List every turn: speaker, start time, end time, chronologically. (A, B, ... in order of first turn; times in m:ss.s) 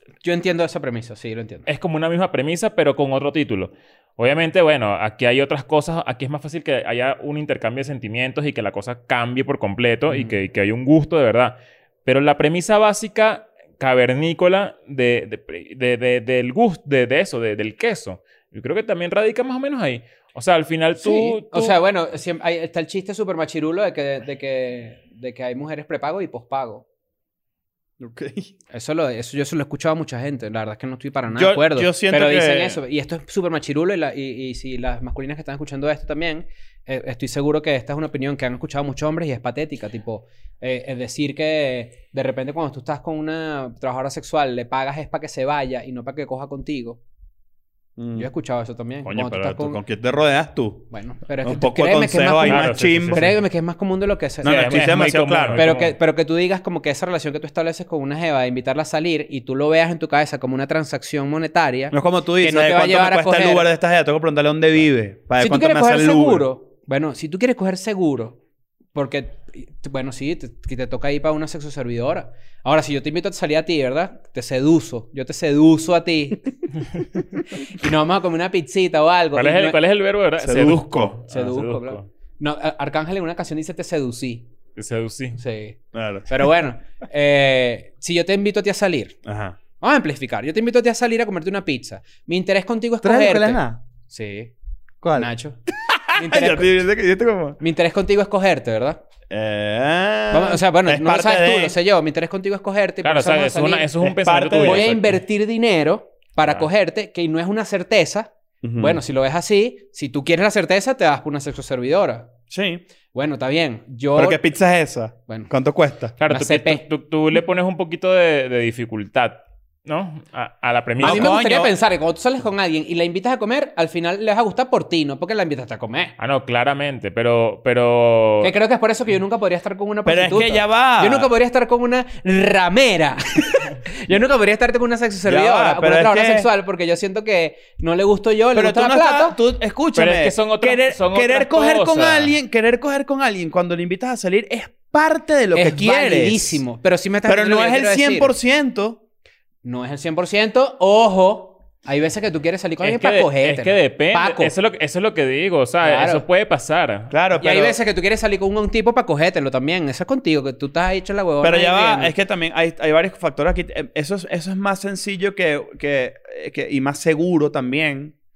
0:00.2-0:01.7 A
0:01.7-0:21.7 B
0:10.1-0:10.4 A
0:21.0-0:26.8 A
0:28.0-0:28.5 C
0:28.7-0:47.0 A
0:31.3-0:32.8 C
0:48.0-0:48.3 C
0:48.1-0:49.8 A
0:49.0-0:50.9 C
0:50.9-0:54.9 A
0:51.4-0:53.3 C
0:52.4-0:53.4 B
0:54.4-0:55.6 C
0:54.4-0:56.0 B
0:55.5-1:03.7 A
1:01.9-1:06.4 C
1:05.4-1:08.4 A
1:08.9-1:16.5 A
1:17.6-1:19.8 A
1:19.3-1:22.1 B
1:20.4-1:21.2 C
1:21.3-1:24.5 A
1:24.8-1:25.4 B
1:25.3-1:29.2 A
1:25.9-1:26.5 C
1:29.2-1:29.6 C
1:29.8-1:34.5 A
1:33.0-1:33.8 C
1:35.0-1:37.6 C
1:35.1-1:35.6 A
1:36.1-1:36.8 A
1:37.6-1:39.0 A
1:39.3-1:41.7 C
1:40.3-1:43.9 A
1:43.0-1:45.2 B
1:44.0-1:44.9 C
1:44.6-1:52.3 A
1:48.6-1:49.0 C
1:52.5-1:52.8 C
1:53.1-1:54.4 A
1:54.2-1:56.2 C
1:56.2-2:01.3 B
1:56.2-1:56.8 A
2:01.0-2:01.7 C
2:01.0-2:06.1 A
2:06.2-2:08.5 B
2:08.4-2:19.4 A
2:10.0-2:11.3 C
2:15.2-2:16.5 C
2:18.5-2:26.6 C
2:19.9-2:22.4 B
2:25.5-2:28.3 A
2:27.3-2:29.0 C
2:29.6-2:34.5 A
2:32.8-2:37.1 B
2:35.8-2:36.2 A
2:37.1-2:37.8 C
2:37.4-2:42.1 A
2:41.4-2:48.1 C